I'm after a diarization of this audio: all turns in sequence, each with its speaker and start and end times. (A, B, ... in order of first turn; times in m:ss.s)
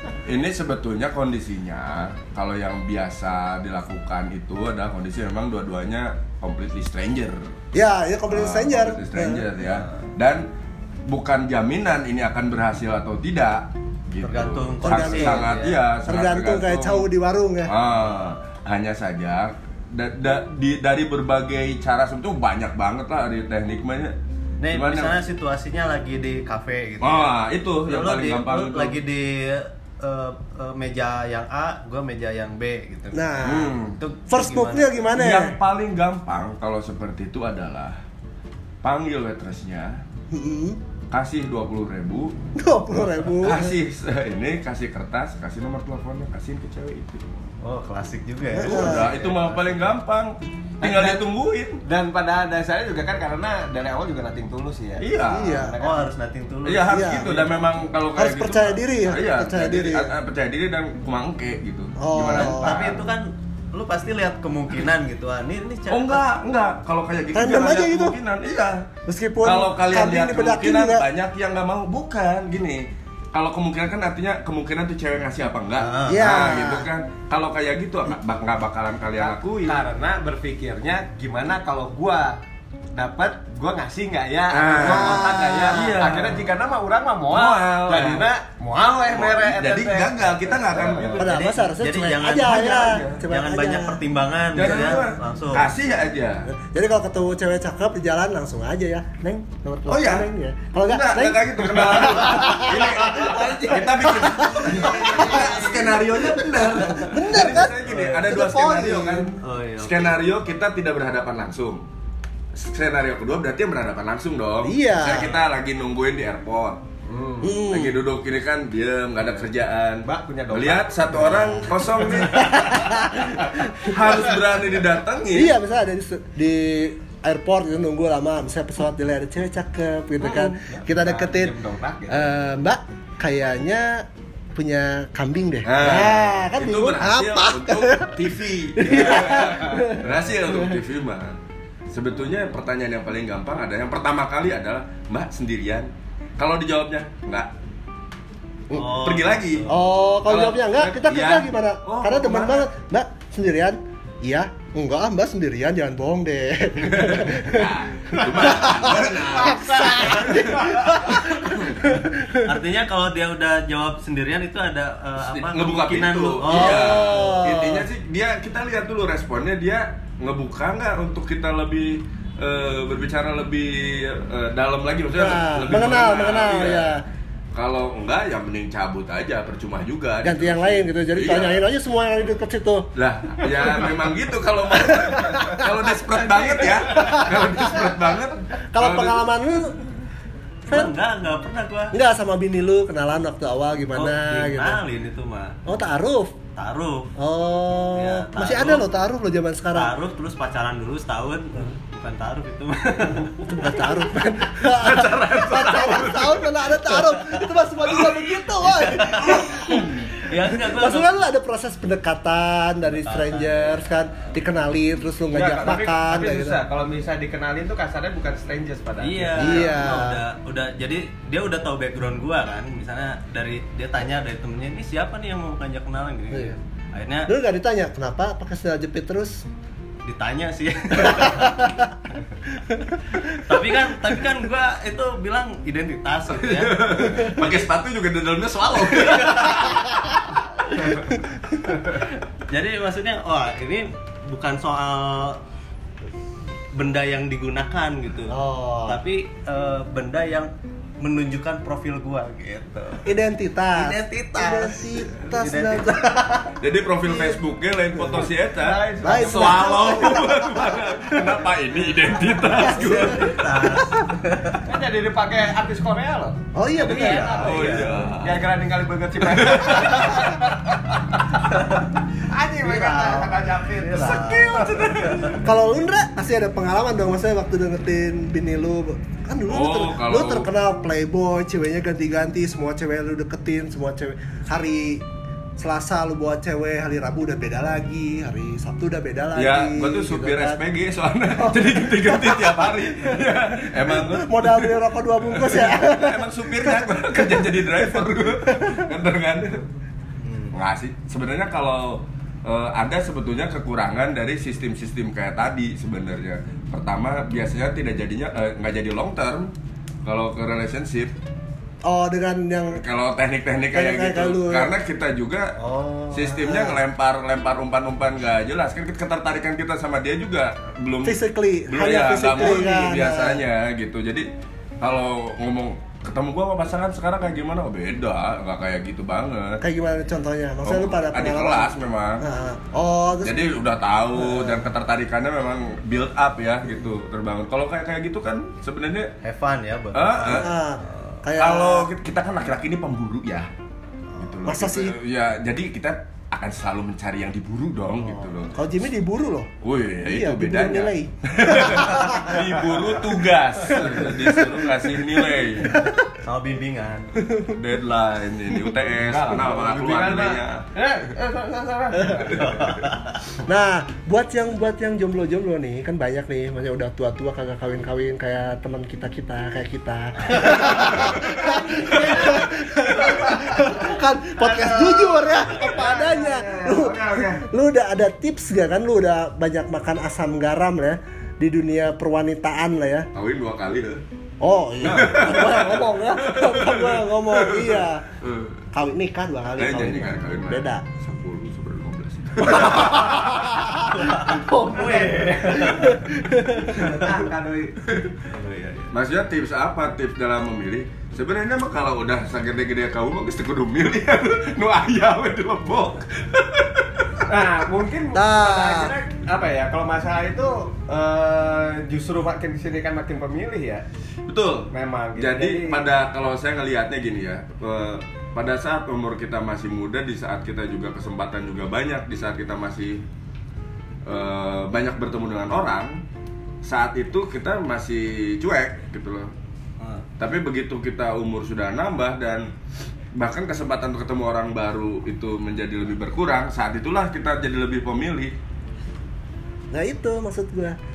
0:00.2-0:07.5 A
0:07.7-0:09.5 B
0:08.3-0:10.5 A
0:11.1-0:17.1 A
0:14.2-0:15.8 C
0:14.8-0:15.5 B
0:16.1-0:17.7 B
0:17.7-0:24.2 A
0:24.6-0:27.3 C
0:24.7-0:25.2 A
0:27.0-0:29.0 A
0:27.9-0:35.0 C
0:33.1-0:33.7 B
0:33.4-0:34.0 A
0:34.3-0:35.6 B
0:35.2-0:38.0 A
0:38.8-0:40.0 A
0:40.3-0:40.8 B
0:41.1-0:42.4 A
0:42.6-0:43.8 B
0:43.4-0:47.2 A
0:47.6-0:49.6 C
0:48.6-0:49.1 B
0:48.6-0:51.8 A
0:50.8-0:51.2 D
0:51.8-0:56.1 D
0:55.0-0:55.7 A
0:55.3-0:55.8 B
0:55.8-0:57.3 C
0:56.6-1:03.0 A
0:56.9-0:57.3 B
0:58.2-1:00.2 B
1:02.0-1:03.0 B
1:02.3-1:06.2 C
1:05.9-1:08.9 A
1:07.3-1:08.2 B
1:09.1-1:11.0 B
1:09.4-1:19.8 A
1:15.8-1:16.3 C
1:16.1-1:16.9 B
1:19.2-1:22.4 D
1:22.9-1:31.2 D
1:24.5-1:26.5 A
1:24.8-1:25.9 B
1:27.3-1:28.3 A
1:29.1-1:31.3 A
1:31.2-1:34.0 B
1:31.2-1:35.7 C
1:32.8-1:33.2 A
1:34.6-1:36.5 A
1:36.5-1:45.2 B
1:39.9-1:40.3 A
1:40.8-1:51.8 A
1:44.6-1:46.2 D
1:46.8-1:49.3 B
1:47.8-1:48.2 C
1:49.4-1:50.1 C
1:52.5-1:56.8 A
1:54.6-1:55.3 B
1:57.1-1:57.6 D
1:57.4-1:58.0 B
1:57.6-2:05.5 A
2:00.0-2:02.6 D
2:02.3-2:03.9 B
2:03.9-2:04.2 D
2:05.3-2:11.5 B
2:10.2-2:12.3 D
2:12.1-2:18.1 B
2:15.6-2:21.4 A
2:18.8-2:20.8 B
2:18.8-2:20.0 D
2:21.9-2:27.5 A
2:28.7-2:30.0 C
2:28.8-2:29.7 A
2:29.7-2:42.5 B
2:30.3-2:32.6 A
2:36.8-2:40.8 A
2:38.4-2:40.9 D
2:42.4-2:47.4 C
2:45.2-2:57.0 A
2:46.5-2:47.9 B
2:55.2-2:57.0 B
2:57.5-3:01.6 A
3:00.2-3:02.9 B
3:03.0-3:09.2 A
3:04.8-3:05.7 B
3:06.4-3:07.2 D
3:07.0-3:07.9 B
3:08.7-3:09.8 B
3:10.7-3:10.9 B
3:10.7-3:11.9 C
3:11.9-3:14.8 B
3:14.0-3:15.6 C
3:15.7-3:16.4 B
3:16.6-3:17.1 C
3:17.2-3:19.9 B
3:17.9-3:18.9 C
3:19.7-3:23.8 C
3:23.5-3:29.9 B
3:24.6-3:26.5 A
3:27.0-3:27.4 C
3:27.9-3:28.2 A
3:28.7-3:31.2 C
3:29.2-3:29.9 A
3:30.5-3:36.6 B
3:32.9-3:33.8 C
3:35.3-3:39.8 D
3:39.0-3:47.3 C
3:39.4-3:40.2 B
3:46.3-3:46.6 B
3:47.3-3:49.4 B
3:50.0-3:51.7 C
3:51.0-3:51.9 B
3:52.7-3:53.5 B
3:53.3-3:56.9 C
3:56.3-4:01.0 A
3:59.1-3:59.7 C
4:02.5-4:05.4 C
4:06.7-4:13.1 C
4:08.3-4:09.0 B
4:13.0-4:16.2 B
4:13.7-4:16.2 C
4:16.6-4:23.4 A
4:17.1-4:17.4 B
4:18.6-4:21.1 D
4:19.0-4:20.3 B
4:22.5-4:24.2 B
4:22.6-4:24.7 C
4:24.6-4:31.7 D
4:26.6-4:27.5 B
4:26.8-4:28.0 C
4:27.4-4:28.5 A
4:29.2-4:30.3 A
4:32.2-4:35.4 D
4:32.6-4:34.7 B
4:33.9-4:35.3 C
4:35.4-4:45.1 B
4:39.5-4:40.5 A
4:45.6-4:50.6 B
4:49.4-4:59.7 A
4:51.4-4:58.9 B
5:00.5-5:09.5 A
5:10.0-5:11.1 A
5:11.8-5:12.8 B
5:12.8-5:15.5 A
5:13.7-5:14.7 B
5:15.6-5:16.8 B
5:16.1-5:24.3 A
5:21.0-5:23.4 B
5:24.8-5:29.6 A
5:29.6-5:31.7 B
5:30.6-5:32.2 A
5:32.2-5:33.5 B
5:33.2-5:39.1 A
5:34.2-5:34.7 B
5:39.2-5:41.2 C
5:39.9-5:40.5 A
5:40.2-5:41.9 B
5:41.4-5:43.5 A
5:44.2-5:48.7 A
5:44.4-5:45.0 B
5:48.1-5:49.5 B
5:49.6-5:55.9 A
5:50.0-5:52.4 B
5:52.4-5:54.2 D
5:55.7-5:56.0 B
5:56.2-5:57.1 C
5:57.2-5:57.5 B
5:57.5-6:00.7 A
5:59.0-6:02.8 D
6:02.3-6:02.9 A
6:03.5-6:23.1 B
6:10.5-6:17.4 D
6:11.0-6:11.4 A
6:23.1-6:24.0 A
6:24.4-6:28.0 B
6:24.8-6:28.6 A
6:28.7-6:30.9 B
6:29.6-6:33.9 A
6:32.6-6:34.1 B
6:34.0-6:36.0 C
6:34.2-6:36.0 D
6:35.7-6:37.0 B
6:36.8-6:37.8 D
6:38.2-6:38.9 C
6:38.9-6:47.2 A
6:47.3-6:53.8 D
6:48.1-6:48.9 B
6:54.3-7:03.0 A
6:54.7-6:55.9 D
7:04.0-7:06.0 A
7:06.6-7:09.3 A
7:09.8-7:10.0 C
7:10.2-7:12.5 A
7:13.2-7:18.4 A
7:19.7-7:20.8 B